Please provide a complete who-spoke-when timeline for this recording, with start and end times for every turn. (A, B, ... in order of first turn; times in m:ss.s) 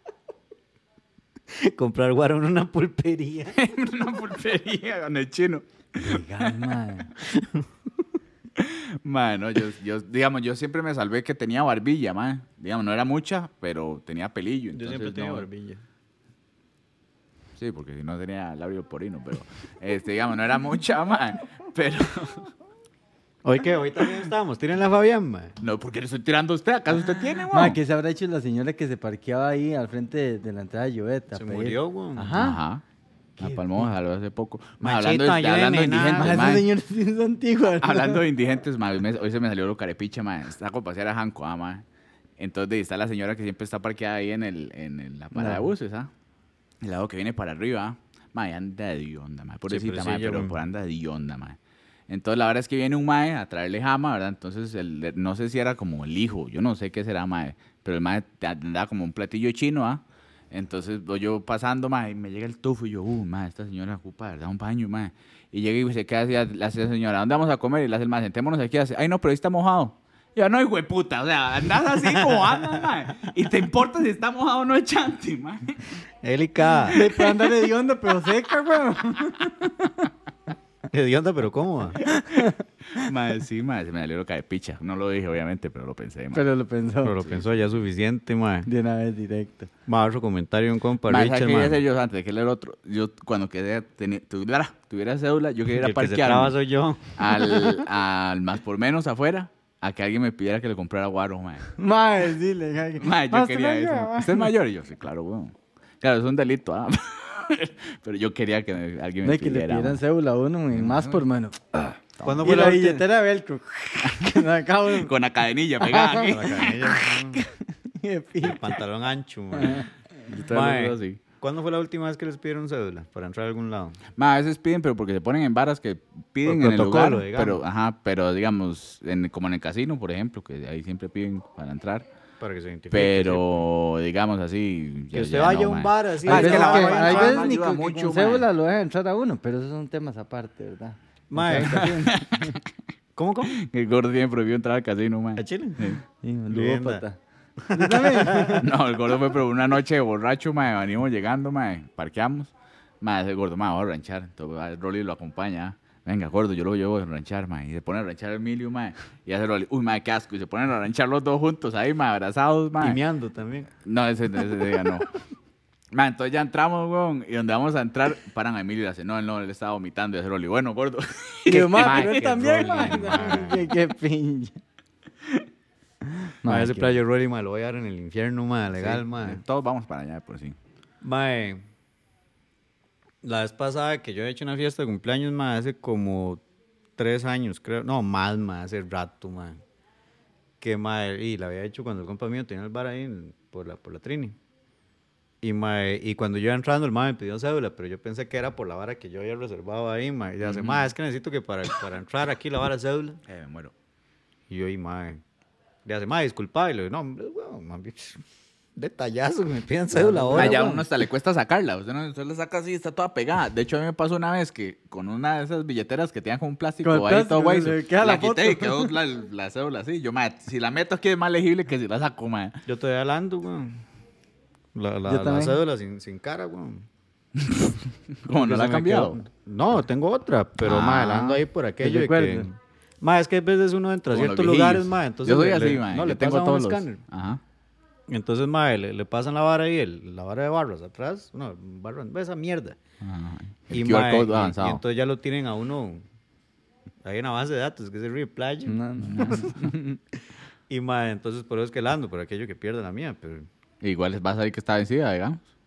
0:01.5-0:03.6 A
0:03.5-0:06.5 B
0:06.0-0:07.1 C
0:07.2-0:07.6 A
0:08.6-0:15.4 B
0:14.7-0:15.8 A
0:17.6-0:22.5 B
0:23.4-0:25.5 A
0:25.6-0:27.8 B
0:27.5-0:32.6 C
0:31.3-0:32.3 A
0:32.3-0:32.8 B
0:33.4-0:36.7 B
0:33.4-0:33.8 C
0:34.8-0:36.5 A
0:36.1-0:38.2 C
0:37.8-0:41.8 B
0:42.4-0:46.1 B
0:45.3-0:45.7 C
0:46.8-0:51.6 B
0:49.7-0:50.6 A
0:52.1-1:16.0 B
1:16.2-1:17.0 A
1:16.8-1:17.3 B
1:16.9-1:19.9 C
1:20.9-1:22.0 A
1:22.1-1:26.4 B
1:22.2-1:22.5 C
1:26.3-1:27.2 C
1:27.0-1:28.7 A
1:27.2-1:27.5 B
1:28.6-1:29.7 C
1:29.9-1:31.8 A
1:31.1-1:36.6 B
1:35.8-1:37.8 A
1:37.2-1:41.7 B
1:41.8-1:44.5 C
1:43.0-1:50.0 B
1:49.2-1:55.1 C
1:50.7-1:51.2 B
1:52.2-1:52.5 B
1:52.2-1:53.0 A
1:54.0-1:56.7 B
1:55.8-1:56.8 C
1:56.2-1:57.4 A
1:57.4-1:58.8 C
1:58.4-1:59.8 A
1:59.6-1:59.8 C
2:00.3-2:01.2 B
2:00.5-2:04.0 A
2:04.2-2:12.0 B
2:06.4-2:07.6 A
2:12.4-2:13.7 A
2:12.9-2:18.5 B
2:15.1-2:17.5 A
2:16.2-2:22.6 C
2:21.3-2:22.0 A
2:21.6-2:22.6 B
2:23.1-2:23.6 A
2:23.5-2:26.0 B
2:25.4-2:25.9 A
2:26.2-2:27.2 C
2:26.5-2:27.0 A
2:27.6-2:28.6 A
2:27.7-2:28.7 C
2:28.6-2:43.0 B
2:42.8-2:43.7 A
2:43.8-2:45.1 B
2:45.9-2:52.4 B
2:51.5-2:54.6 C
2:51.8-2:53.7 A
2:56.1-2:57.0 C
2:56.4-2:59.4 A
2:58.7-3:00.6 B
3:01.0-3:01.6 A
3:03.2-3:06.4 A
3:07.0-3:09.6 A
3:10.6-3:14.4 A
3:15.4-3:23.2 A
3:20.4-3:20.9 B
3:23.2-3:23.7 B
3:24.5-3:25.2 A
3:25.8-3:28.2 A
3:28.8-3:30.8 A
3:29.9-3:30.8 C
3:30.3-3:42.6 B
3:36.8-3:38.9 C
3:42.6-3:43.8 A
3:44.7-3:46.9 A
3:45.0-3:45.6 C
3:47.4-3:49.2 B
3:48.3-3:57.0 A
3:50.6-3:51.4 B
3:51.8-3:52.5 C
3:54.1-3:57.4 B
3:58.1-4:02.8 A
4:03.0-4:04.8 B
4:03.7-4:06.0 A
4:07.0-4:09.5 A
4:08.7-4:10.0 C
4:09.0-4:09.6 B
4:10.7-4:13.5 A
4:13.8-4:15.5 B